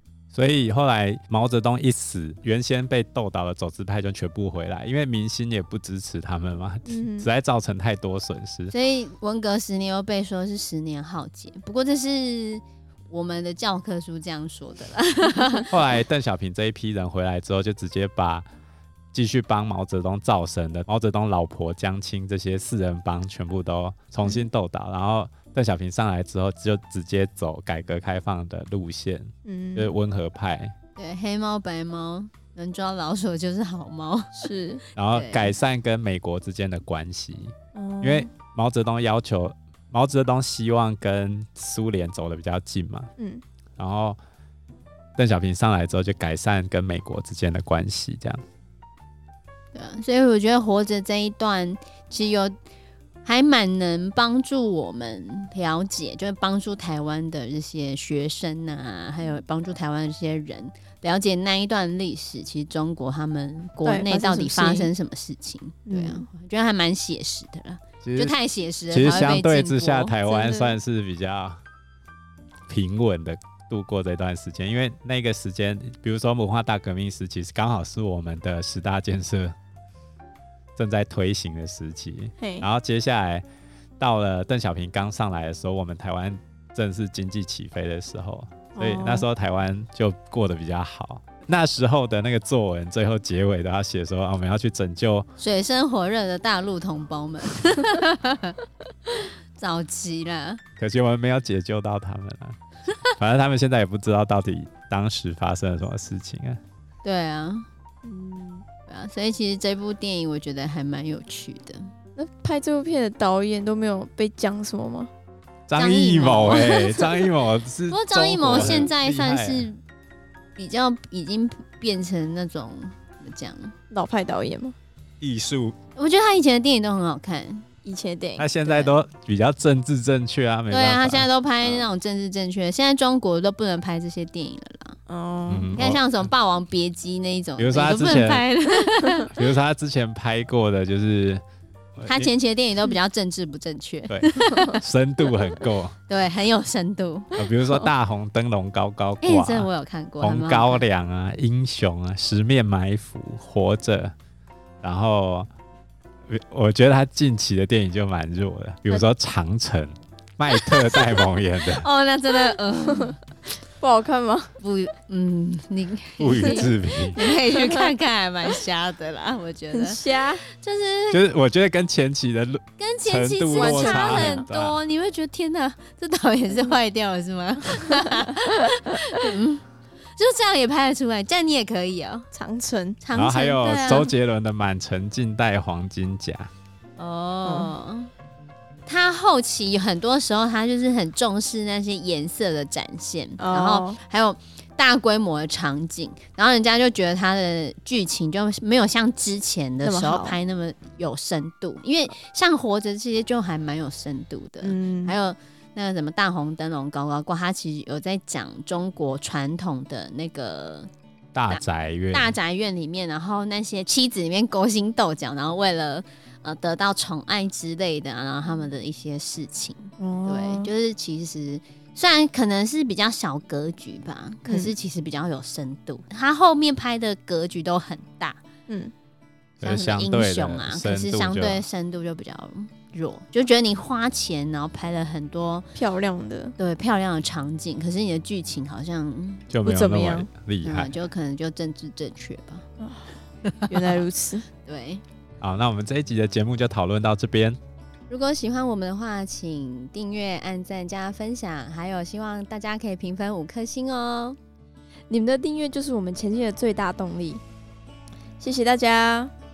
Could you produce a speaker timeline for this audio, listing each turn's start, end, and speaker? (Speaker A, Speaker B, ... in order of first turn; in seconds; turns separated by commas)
Speaker A: 0.3-8.7, Speaker B: 6.9-7.3, Speaker C: 8.7-15.8, Speaker A: 15.7-18.4, Speaker A: 19.1-30.7, Speaker B: 29.4-29.9, Speaker C: 31.0-34.5, Speaker B: 34.4-34.8, Speaker A: 35.0-43.1, Speaker C: 35.1-35.5, Speaker B: 37.7-38.3, Speaker A: 43.8-44.2, Speaker A: 45.2-48.4, Speaker C: 49.7-52.5, Speaker C: 53.2-70.7, Speaker B: 63.8-64.9, Speaker B: 65.9-66.2, Speaker A: 68.0-68.4, Speaker A: 68.9-71.6, Speaker A: 72.7-79.5, Speaker A: 80.8-83.4, Speaker B: 82.4-82.7, Speaker A: 84.0-95.3, Speaker B: 88.8-89.2, Speaker C: 95.4-100.6, Speaker A: 100.8-102.6, Speaker A: 103.2-106.6, Speaker C: 107.0-107.7, Speaker B: 108.0-108.6, Speaker C: 108.9-111.9, Speaker B: 112.2-115.1, Speaker A: 115.7-119.7, Speaker C: 115.8-117.3, Speaker C: 117.9-119.8, Speaker C: 120.5-123.7, Speaker B: 123.9-124.8, Speaker A: 125.2-125.8, Speaker C: 126.0-127.7, Speaker B: 127.8-128.5, Speaker A: 128.4-131.3, Speaker C: 130.7-135.0, Speaker B: 135.1-135.7, Speaker A: 135.5-136.3, Speaker C: 135.8-139.3, Speaker A: 137.6-138.4, Speaker A: 139.3-141.4, Speaker A: 141.9-142.3, Speaker C: 142.1-144.8, Speaker A: 144.1-145.9, Speaker C: 146.1-147.8, Speaker A: 147.3-149.7, Speaker C: 149.2-150.8, Speaker A: 150.2-154.1, Speaker A: 154.8-155.5, Speaker A: 156.3-161.9, Speaker C: 160.7-163.2, Speaker B: 163.8-164.5, Speaker C: 164.6-171.2, Speaker A: 166.2-167.2, Speaker B: 169.7-170.4, Speaker A: 171.1-174.8, Speaker C: 172.8-179.6, Speaker B: 173.6-174.4, Speaker C: 180.2-182.3, Speaker B: 182.3-183.0, Speaker C: 183.0-184.1, Speaker A: 183.1-186.5, Speaker C: 187.0-188.1, Speaker B: 187.4-187.7, Speaker C: 188.9-210.9, Speaker B: 193.4-194.0, Speaker B: 199.8-200.4, Speaker B: 204.6-205.1, Speaker A: 211.3-212.3, Speaker C: 212.1-228.4, Speaker B: 220.0-220.7, Speaker B: 224.4-224.7, Speaker A: 229.6-231.6, Speaker C: 229.6-235.7, Speaker B: 235.8-236.5, Speaker C: 236.6-239.5, Speaker A: 239.5-240.9, Speaker B: 239.6-240.3, Speaker C: 240.6-242.7, Speaker B: 242.8-243.1, Speaker C: 243.5-244.0, Speaker B: 243.7-244.4, Speaker C: 244.6-245.0, Speaker A: 245.4-247.6, Speaker C: 248.1-254.4, Speaker B: 255.1-257.4, Speaker B: 258.4-259.3